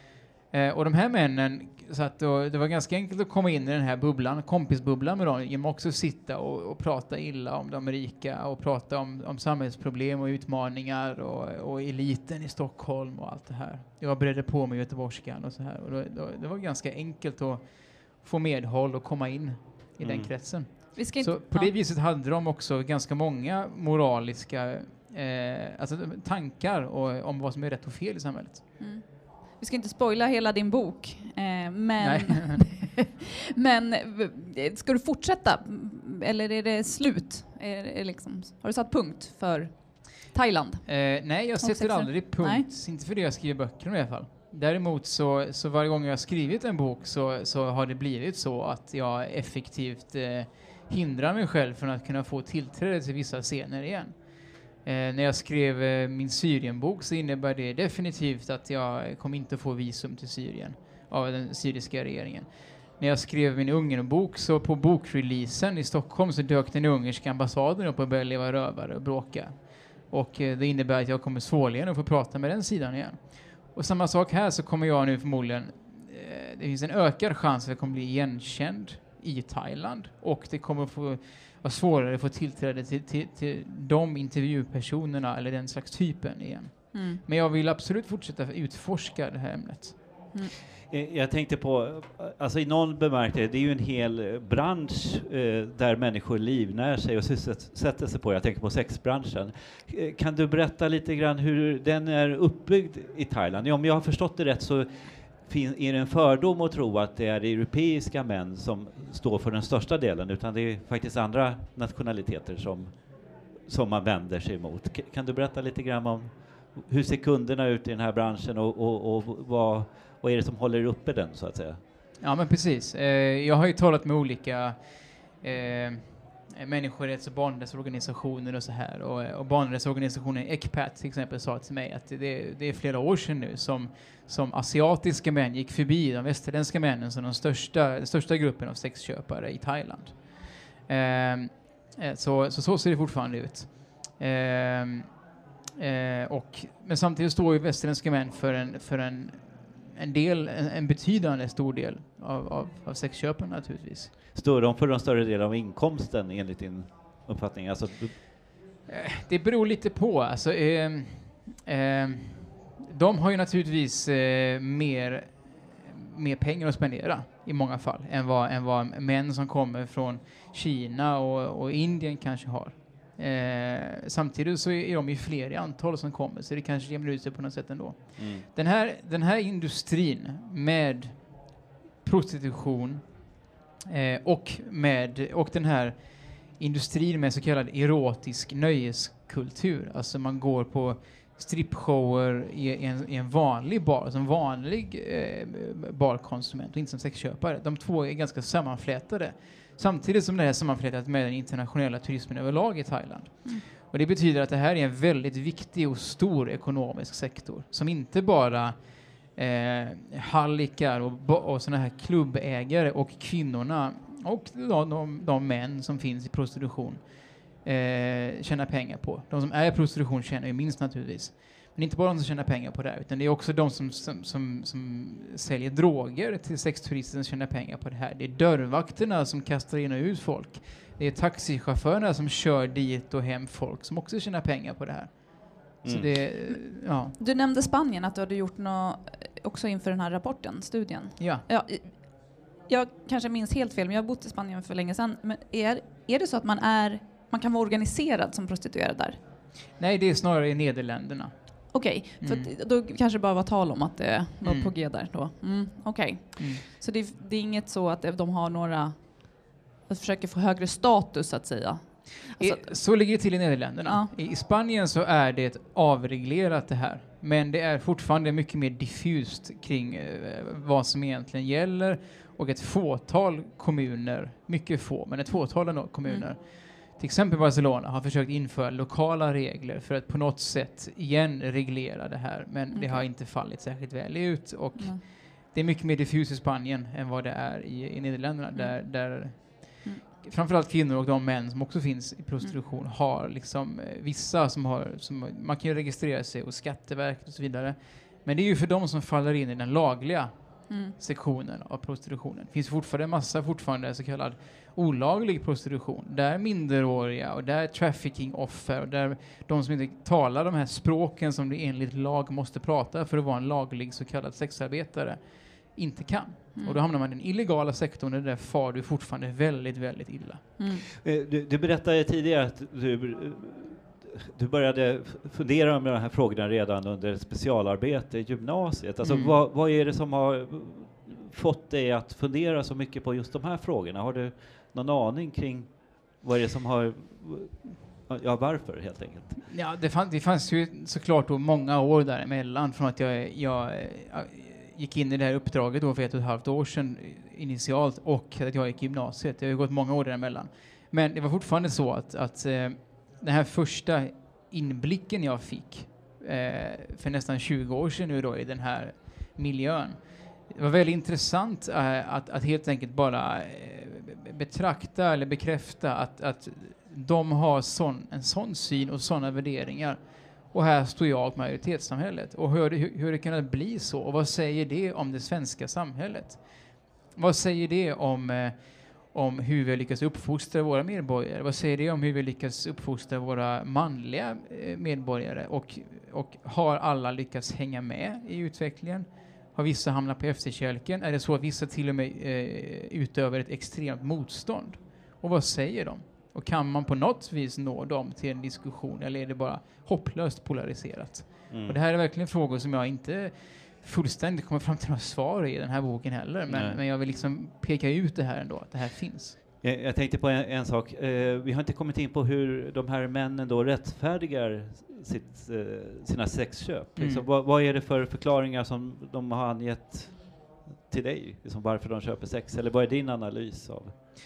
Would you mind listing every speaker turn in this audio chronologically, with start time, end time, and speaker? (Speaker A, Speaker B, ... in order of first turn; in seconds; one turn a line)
Speaker A: 0.5-28.6
Speaker B: 20.0-20.3
Speaker C: 20.7-21.7
Speaker C: 28.8-41.1
Speaker A: 32.0-33.0
Speaker A: 40.9-54.1
Speaker C: 41.6-42.6
Speaker A: 54.8-69.5
Speaker A: 70.1-90.0
Speaker C: 86.9-87.2
Speaker B: 90.9-121.8
Speaker A: 122.2-140.2
Speaker A: 140.8-145.1
Speaker A: 145.8-154.1
Speaker B: 154.3-158.2
Speaker A: 158.9-181.2
Speaker B: 178.2-178.4
Speaker A: 182.0-183.0
Speaker A: 183.8-208.7
Speaker A: 209.3-217.0
Speaker A: 217.6-237.2
Speaker B: 235.8-236.1
Speaker C: 236.5-249.2
Speaker A: 241.2-241.4
Speaker A: 249.8-251.3
Speaker C: 251.7-262.8
Speaker A: 252.2-252.5
Speaker A: 254.4-254.7
Speaker A: 256.4-256.6
Speaker A: 262.4-320.4
Speaker C: 282.7-283.1
Speaker C: 284.8-285.0
Speaker C: 288.5-290.0
Speaker C: 300.7-300.9
Speaker C: 320.6-320.9
Speaker B: 320.7-339.4
Speaker A: 329.0-329.4
Speaker A: 339.5-370.0
Speaker A: 370.5-409.4
Speaker B: 401.5-401.8
Speaker B: 406.5-406.8
Speaker B: 409.6-423.9
Speaker A: 416.9-417.2